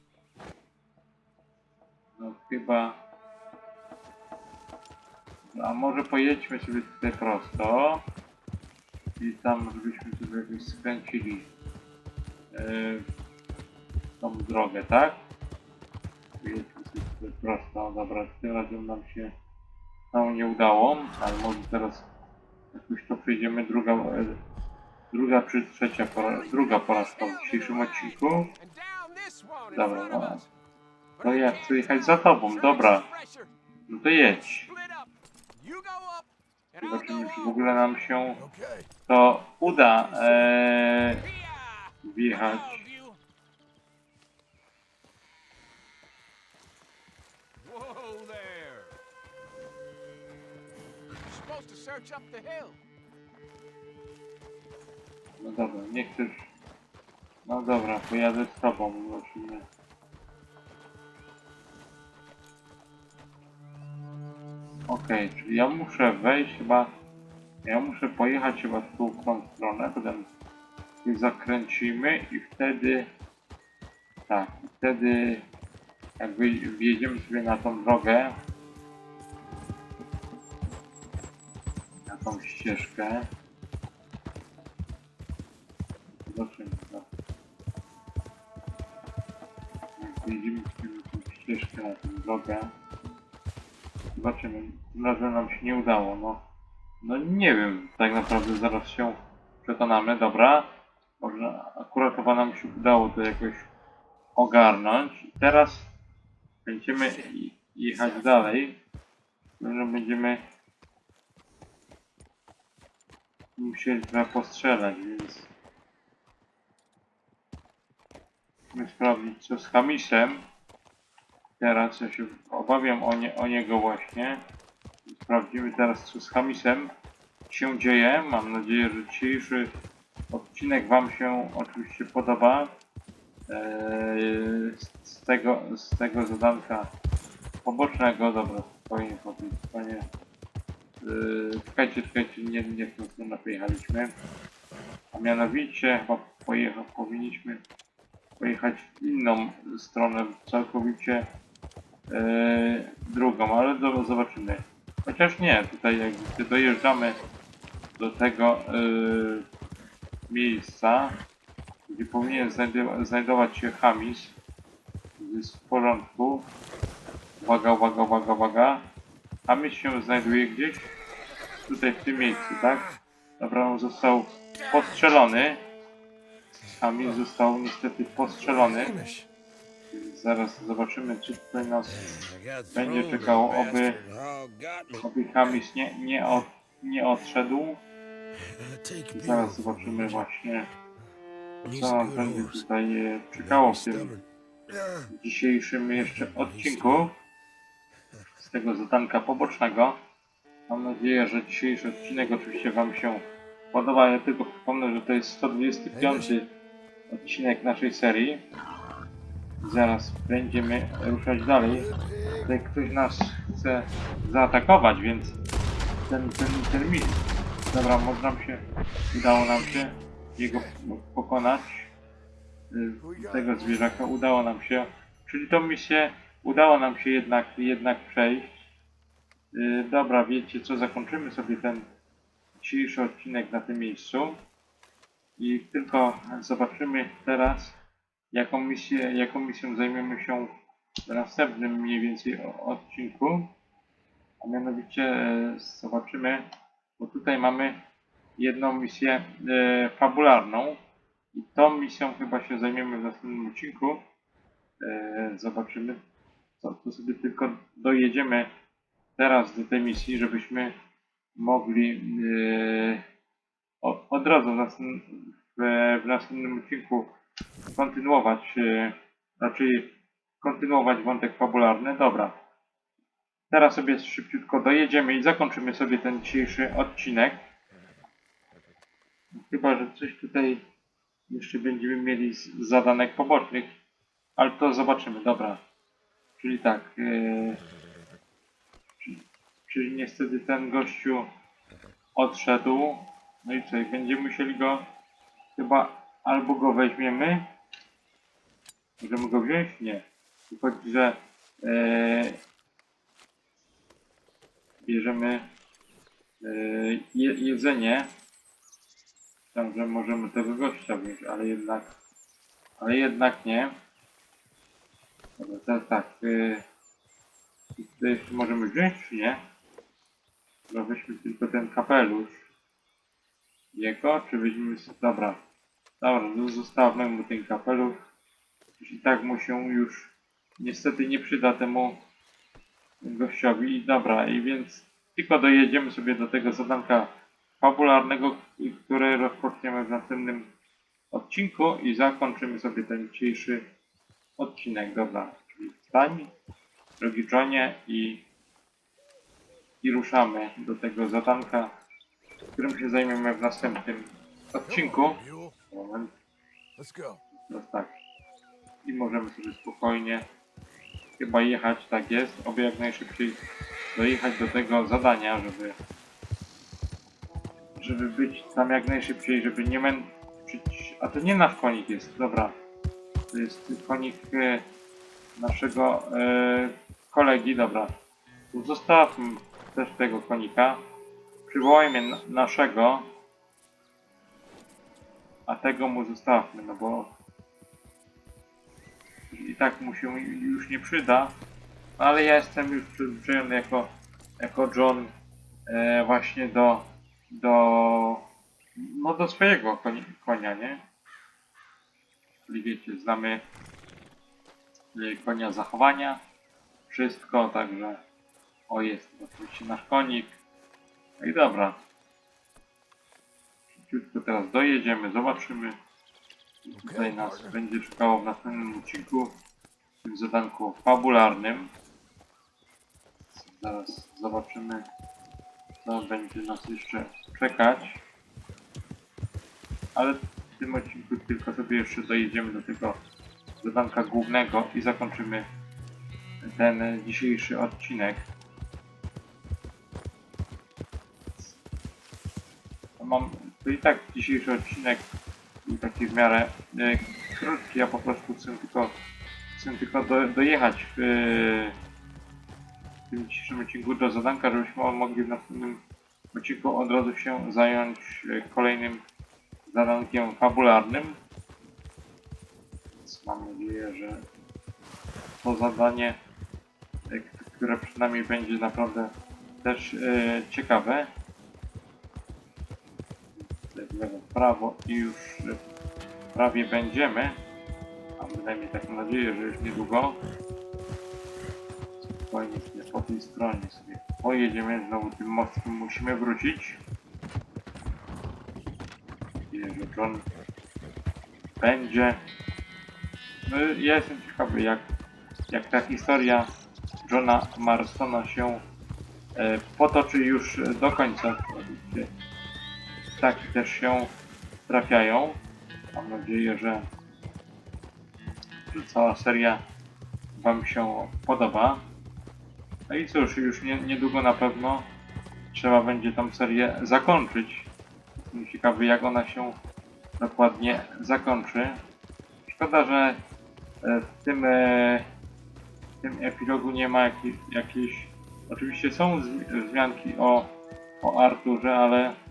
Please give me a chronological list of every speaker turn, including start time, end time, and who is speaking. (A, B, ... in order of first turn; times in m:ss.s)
0:02.2-0:03.0 A
0:05.5-0:08.0 A
0:09.2-0:11.5 A
0:12.5-0:13.0 A
0:14.2-0:15.2 A
0:16.4-0:19.3 A
0:20.1-0:22.1 A
0:22.7-0:24.4 A
0:25.1-0:28.5 A
0:26.2-0:30.5 B
0:29.7-0:30.4 A
0:31.2-0:33.5 B
0:31.2-0:33.0 A
0:33.9-0:34.7 A
0:34.3-0:37.7 B
0:36.8-0:38.4 A
0:38.4-0:38.9 C
0:39.1-0:41.3 A
0:39.8-0:40.4 C
0:40.9-0:43.2 B
0:42.0-0:42.8 A
0:47.6-0:49.0 B
0:51.2-0:52.8 B
0:55.4-0:56.5 A
0:57.4-0:59.6 A
1:04.9-1:06.9 A
1:07.6-1:10.2 A
1:11.0-1:13.1 A
1:14.3-1:15.4 A
1:16.2-1:18.3 A
1:22.1-1:23.2 A
1:26.2-1:27.0 A
1:30.0-1:32.7 A
1:34.1-1:36.4 A
1:37.0-1:40.7 A
1:41.2-1:43.7 A
1:44.4-1:45.9 A
1:46.6-1:48.8 A
1:49.6-1:50.4 A
1:53.6-1:55.5 A
1:58.7-2:00.4 A
2:01.6-2:04.4 A
2:05.1-2:06.9 A
2:07.5-2:09.7 A
2:10.3-2:12.7 A
2:13.5-2:16.9 A
2:17.6-2:20.0 A
2:21.0-2:24.1 A
2:25.1-2:27.6 A
2:28.4-2:31.2 A
2:32.1-2:37.2 A
2:38.0-2:39.4 A
2:40.3-2:41.2 A
2:41.9-2:44.3 A
2:45.2-2:46.5 A
2:47.4-2:48.8 A
2:49.5-2:50.9 A
2:51.7-2:55.6 A
2:56.7-2:59.0 A
2:58.9-2:59.3 C
2:59.9-3:04.0 A
3:02.0-3:05.0 B
3:05.0-3:07.8 A
3:08.6-3:09.5 B
3:09.1-3:10.7 A
3:11.7-3:14.2 A
3:15.1-3:17.2 A
3:18.4-3:20.0 A
3:20.7-3:26.5 A
3:25.9-3:26.3 C
3:27.1-3:28.4 A
3:29.6-3:31.9 A
3:31.9-3:32.5 C
3:32.4-3:35.4 A
3:36.0-3:41.9 A
3:42.7-3:48.5 A
3:43.0-3:44.0 C
3:49.5-3:51.8 A
3:52.6-3:54.4 A
3:55.4-3:57.7 A
3:58.3-4:00.5 A
4:01.1-4:03.5 A
4:04.4-4:06.5 A
4:07.0-4:07.8 A
4:08.4-4:10.8 A
4:11.3-4:14.0 A
4:14.8-4:16.0 A
4:16.6-4:18.5 A
4:19.2-4:20.7 A
4:21.4-4:23.0 A
4:23.8-4:27.1 A
4:27.7-4:32.3 A
4:33.5-4:37.4 A
4:39.3-4:40.6 A
4:41.3-4:43.7 A
4:44.4-4:45.6 A
4:46.4-4:47.6 A
4:49.0-4:51.3 A
4:52.2-4:54.8 A
4:55.6-4:57.4 A
4:59.0-5:02.4 A
5:04.8-5:05.4 A
5:06.4-5:08.1 A
5:09.5-5:11.9 A
5:12.8-5:13.7 A
5:15.4-5:16.6 A
5:17.8-5:19.4 A
5:20.7-5:22.5 A
5:23.7-5:25.4 A
5:26.0-5:28.0 A
5:28.8-5:32.0 A
5:33.0-5:37.1 A
5:37.6-5:40.5 A
5:41.1-5:43.7 A
5:44.4-5:46.3 A
5:47.0-5:48.2 A
5:49.8-5:51.7 A
5:52.6-5:55.2 A
5:54.6-5:55.6 C
5:55.7-5:56.1 A
5:56.8-5:57.2 C
5:57.5-5:57.9 A
5:58.8-6:00.2 A
6:01.2-6:03.4 A
6:03.9-6:05.7 A
6:07.8-6:12.5 A
6:13.3-6:14.6 A
6:15.4-6:17.9 A
6:18.5-6:20.8 A
6:21.5-6:23.0 A
6:25.5-6:27.1 A
6:29.3-6:31.3 A
6:32.0-6:35.1 A
6:35.7-6:38.2 A
6:38.8-6:40.8 A
6:42.5-6:43.4 A
6:44.9-6:46.2 A
6:46.9-6:48.0 A
6:48.7-6:50.3 A
6:51.2-6:51.8 A
6:53.7-6:55.8 A
6:56.6-6:59.4 A
6:56.8-6:57.6 C
7:00.0-7:01.7 A
7:03.3-7:04.8 A
7:05.8-7:08.0 A
7:09.9-7:13.0 A
7:13.6-7:15.4 A
7:16.4-7:18.2 A
7:23.0-7:25.0 A
7:25.6-7:28.9 A
7:29.6-7:31.7 A
7:33.1-7:35.8 A
7:36.3-7:39.0 A
7:39.6-7:41.2 A
7:43.0-7:44.2 A
7:45.4-7:46.2 A
7:47.1-7:49.1 A
7:49.6-7:51.1 A
7:53.7-7:55.6 A
7:56.3-7:57.3 A
7:58.2-8:00.2 A
8:02.2-8:06.8 A
8:09.5-8:10.2 A
8:11.6-8:12.2 A
8:13.4-8:14.8 A
8:15.5-8:16.5 A
8:17.0-8:18.6 A
8:19.4-8:22.1 A
8:23.2-8:24.1 A
8:24.7-8:25.4 A
8:25.9-8:26.8 A
8:28.7-8:29.6 A
8:30.3-8:31.8 A
8:32.9-8:34.9 A
8:35.5-8:37.7 A
8:38.2-8:39.5 A
8:40.2-8:41.8 A
8:42.5-8:43.2 A
8:43.8-8:45.0 A
8:46.0-8:50.5 A
8:51.0-8:52.1 A